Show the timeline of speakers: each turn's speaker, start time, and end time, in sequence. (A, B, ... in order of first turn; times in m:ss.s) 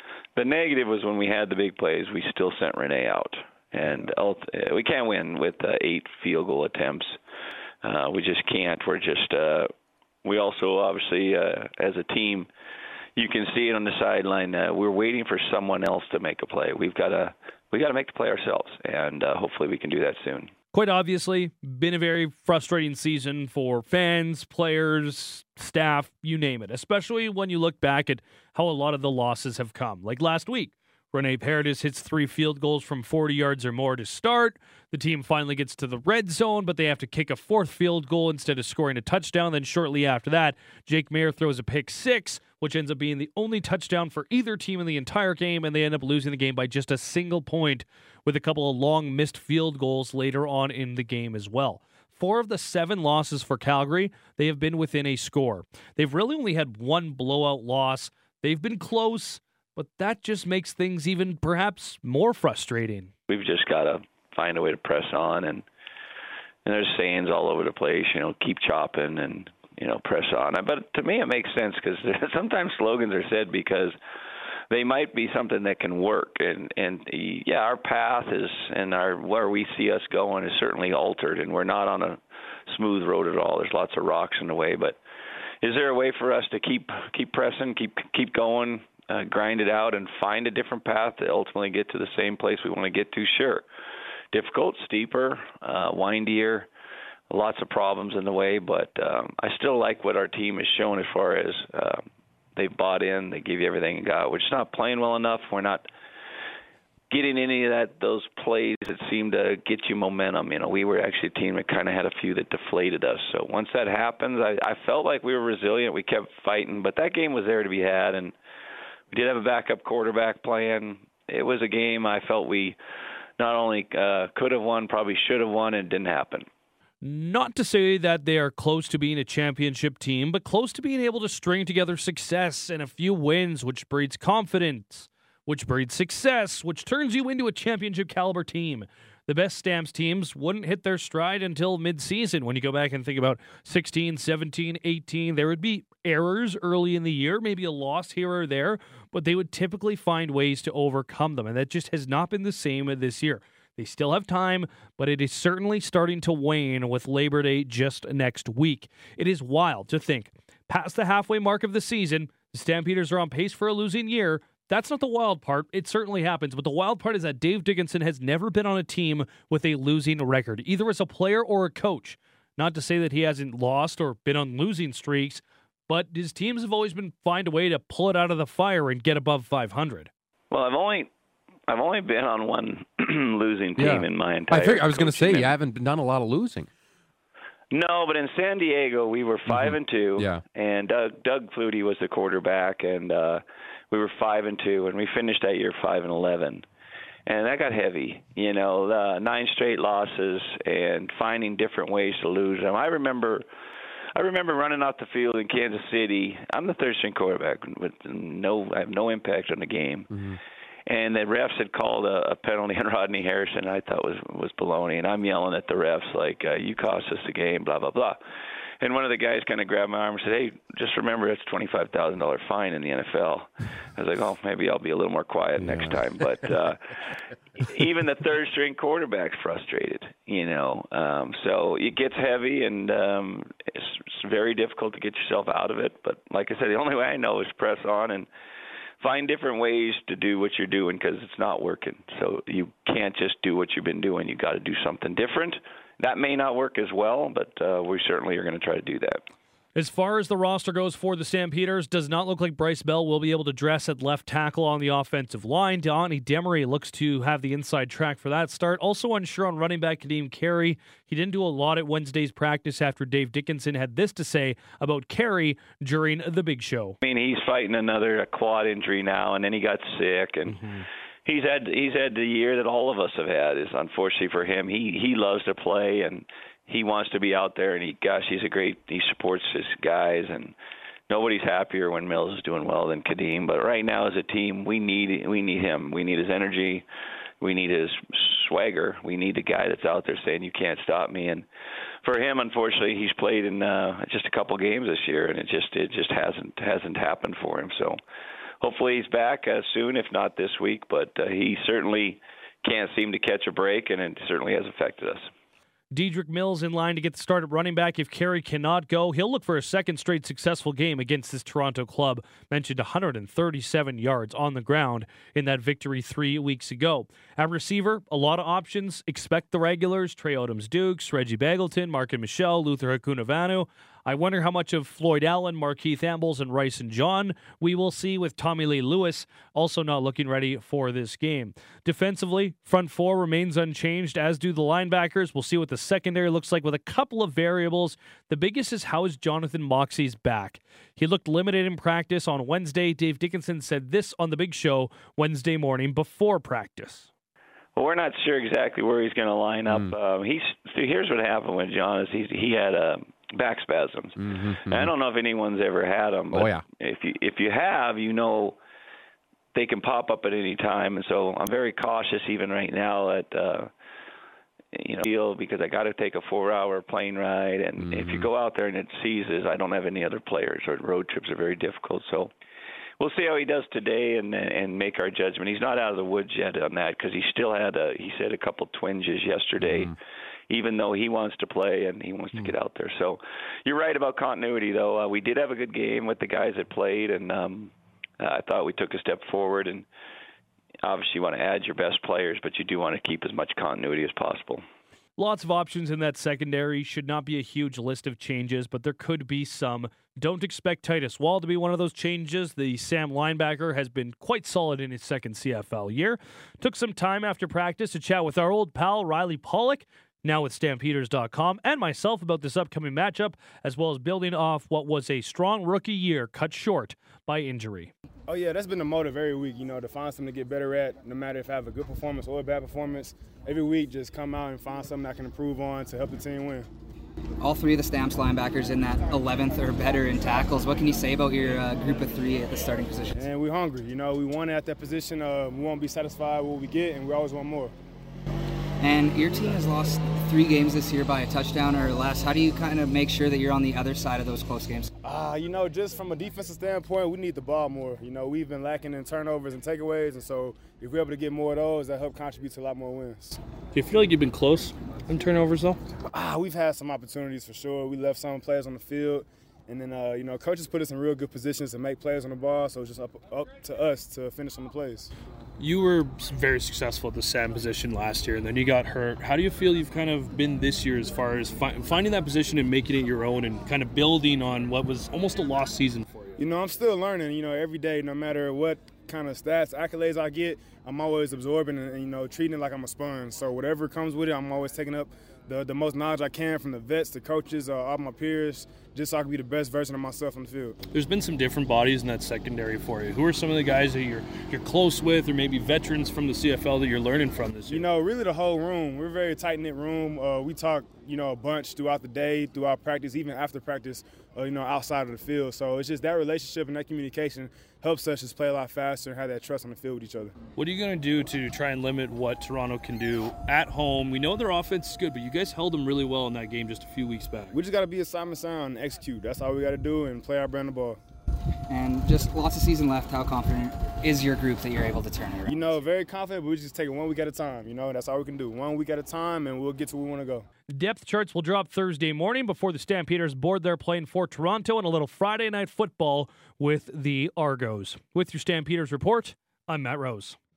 0:00.4-0:07.2 A
0:07.8-0:09.7 A
0:10.2-0:12.5 A
0:13.2-0:20.5 A
0:20.7-1:03.1 B
1:03.3-1:05.7 A
1:06.7-1:14.0 A
1:14.7-1:25.0 A
1:25.6-1:33.6 A
1:34.3-1:36.7 A
1:37.3-1:42.0 A
1:42.6-1:45.9 A
1:47.1-1:58.4 A
1:59.1-2:02.8 A
2:03.4-2:06.5 A
2:07.0-3:00.1 B
3:00.5-3:01.1 A
3:01.7-3:05.6 A
3:03.8-3:06.7 C
3:07.7-3:16.6 A
3:09.5-3:10.4 C
3:17.3-3:23.4 A
3:24.2-3:30.1 A
3:30.1-3:30.4 C
3:30.9-3:38.2 A
3:38.8-3:46.8 A
3:45.6-3:46.6 C
3:47.6-3:58.3 A
3:59.0-4:09.2 A
4:09.8-4:27.0 B
4:27.0-4:40.6 A
4:41.1-4:46.9 A
4:47.4-4:51.5 A
4:52.0-4:58.0 A
4:58.6-5:05.3 A
5:05.9-5:47.1 B
5:47.8-5:58.6 A
5:49.7-5:50.0 C
5:54.2-5:54.9 C
5:56.3-5:56.6 C
5:59.5-6:03.7 A
6:04.8-6:12.3 A
6:07.8-6:08.3 C
6:13.0-6:20.0 A
6:19.6-6:20.0 C
6:20.5-6:29.9 A
6:30.8-6:34.6 A
6:35.2-6:57.9 B
6:58.3-7:06.7 D
7:07.4-7:13.3 E
7:13.1-7:17.7 D
7:18.8-7:24.9 E
7:25.0-7:33.4 D
7:33.7-7:35.8 F
7:36.1-7:45.1 D
7:45.6-7:56.4 F
7:56.4-8:10.8 D
8:10.9-8:17.8 F
8:17.7-8:30.4 D
8:30.6-8:37.6 F
8:37.5-8:41.0 D
8:41.7-8:45.7 E
8:45.5-8:50.4 D
8:50.7-9:00.4 B